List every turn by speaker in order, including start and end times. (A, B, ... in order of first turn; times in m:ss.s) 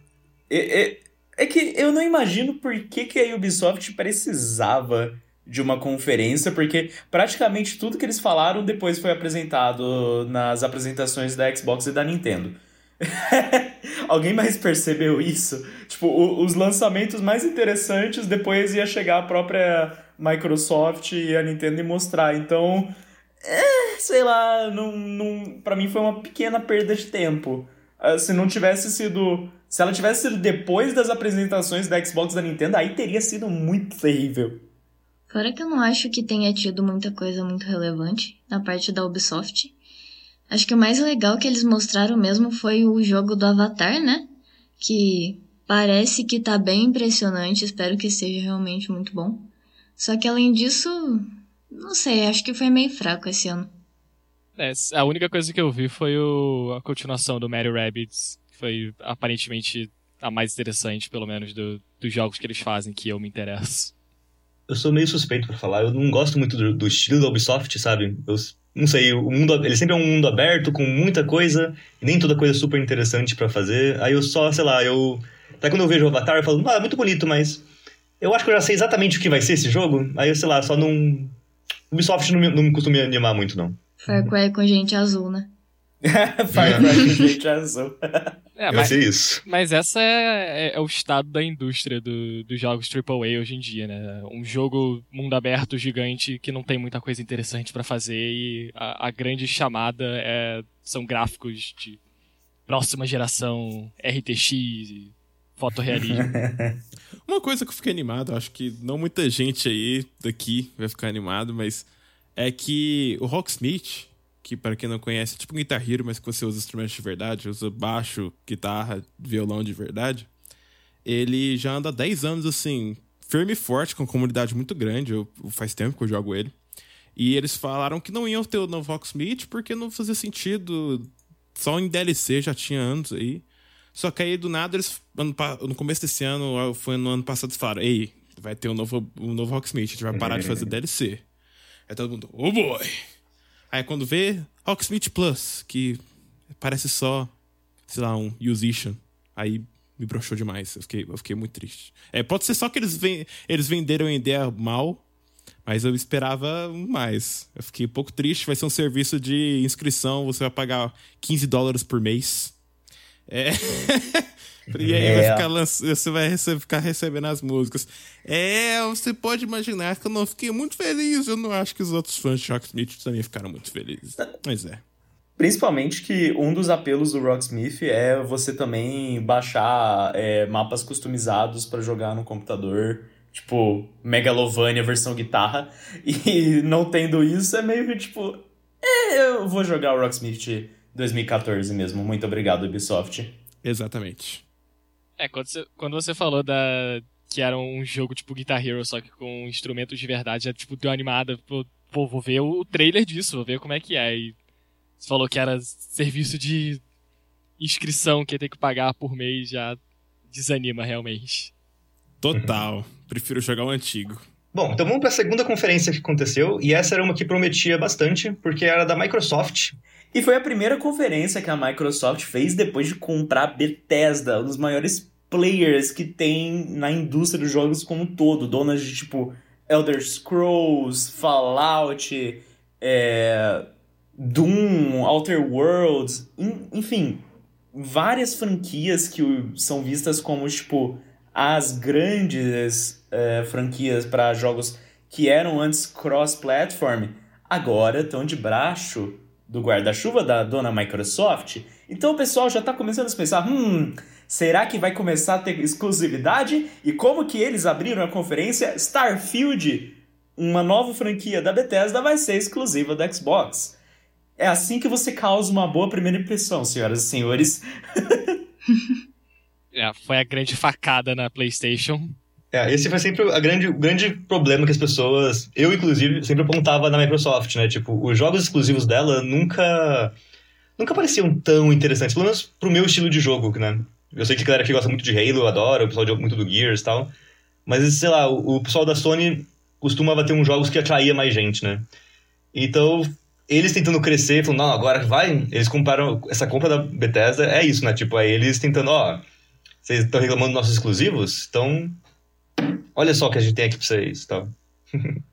0:00.5-0:22.9 A
0:23.4-0:34.6 A
0:35.3-0:39.7 B
0:40.5-0:44.3 B
0:44.8-0:49.5 B
0:50.0-0:53.7 B
0:54.6-1:03.9 C
1:04.7-1:17.6 D
1:18.2-1:21.3 D
1:21.9-1:23.8 D
1:24.0-1:25.5 B
1:26.0-1:28.0 A
1:28.6-1:42.0 C
1:28.7-1:29.4 D
1:42.7-1:46.3 C
1:46.1-1:46.8 A
1:47.2-2:00.3 E
2:01.0-2:06.6 E
2:07.2-2:21.2 E
2:20.1-2:20.7 D
2:21.9-2:22.9 E
2:23.7-2:26.0 E
2:26.5-2:27.3 E
2:27.9-2:35.0 E
2:35.6-2:42.6 E
2:43.3-2:54.8 E
2:44.8-2:45.0 D
2:44.9-2:45.5 A
2:55.4-3:13.4 A
3:13.6-3:14.4 E
3:15.2-3:24.3 C
3:25.0-3:26.8 C
3:27.6-3:29.8 C
3:30.3-3:31.5 C
3:32.2-3:34.2 E
3:32.3-3:32.6 D
3:34.5-3:39.8 D
3:40.1-3:53.6 A
3:54.2-4:23.8 A
4:24.4-4:28.3 A
4:29.7-4:32.2 C
4:32.5-4:40.1 D
4:40.8-4:47.1 D
4:47.7-4:51.9 D
4:52.5-4:59.2 D
4:59.8-5:02.0 D
5:03.0-5:05.2 D